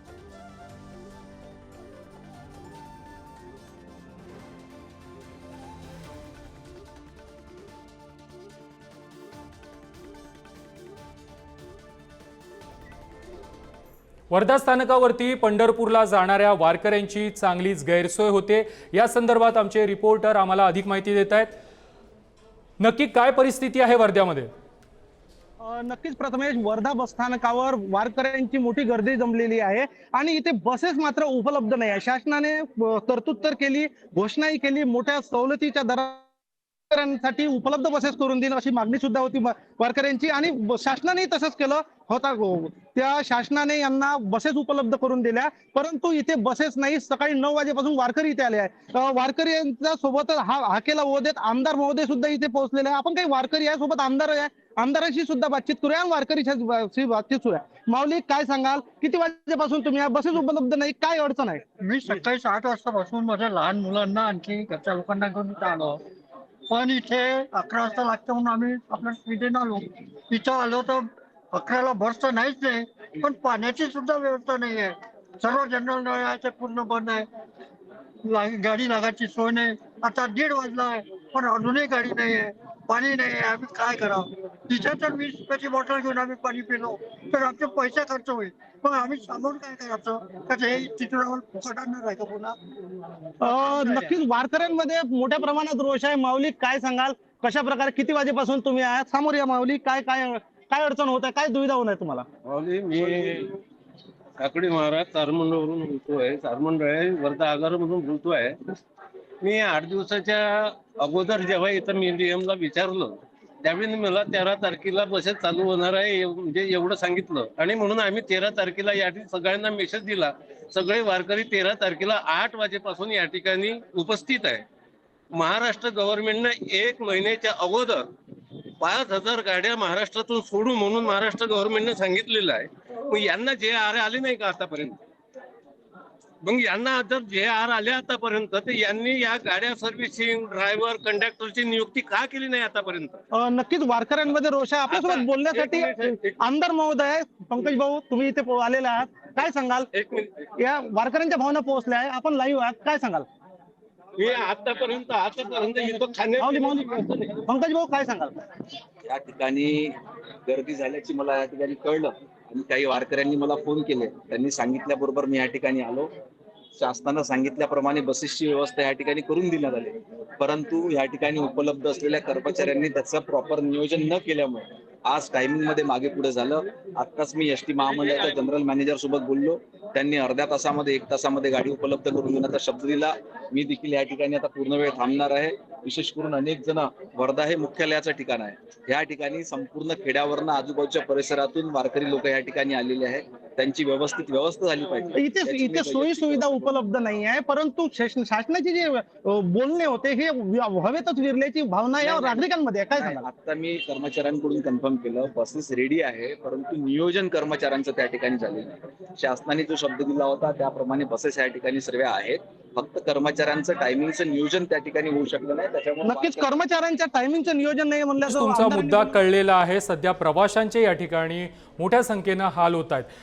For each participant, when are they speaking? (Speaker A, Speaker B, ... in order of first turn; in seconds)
Speaker A: 14.3-21.6, 22.8-24.5, 218.2-223.1
Speaker B: 25.6-36.3, 36.9-61.6, 93.4-102.2, 143.3-149.9, 150.6-153.3, 156.4-158.3, 195.1-203.2, 216.0-219.2
Speaker C: 61.8-66.0, 66.7-77.3, 78.2-92.6
Speaker D: 102.4-103.6, 104.4-108.6, 109.4-124.6, 125.3-128.1, 128.8-135.0, 136.4-143.2, 144.9-146.2, 149.9-150.3, 154.2-157.4
Speaker E: 159.1-159.9, 160.5-166.1, 166.8-196.7, 202.0-216.5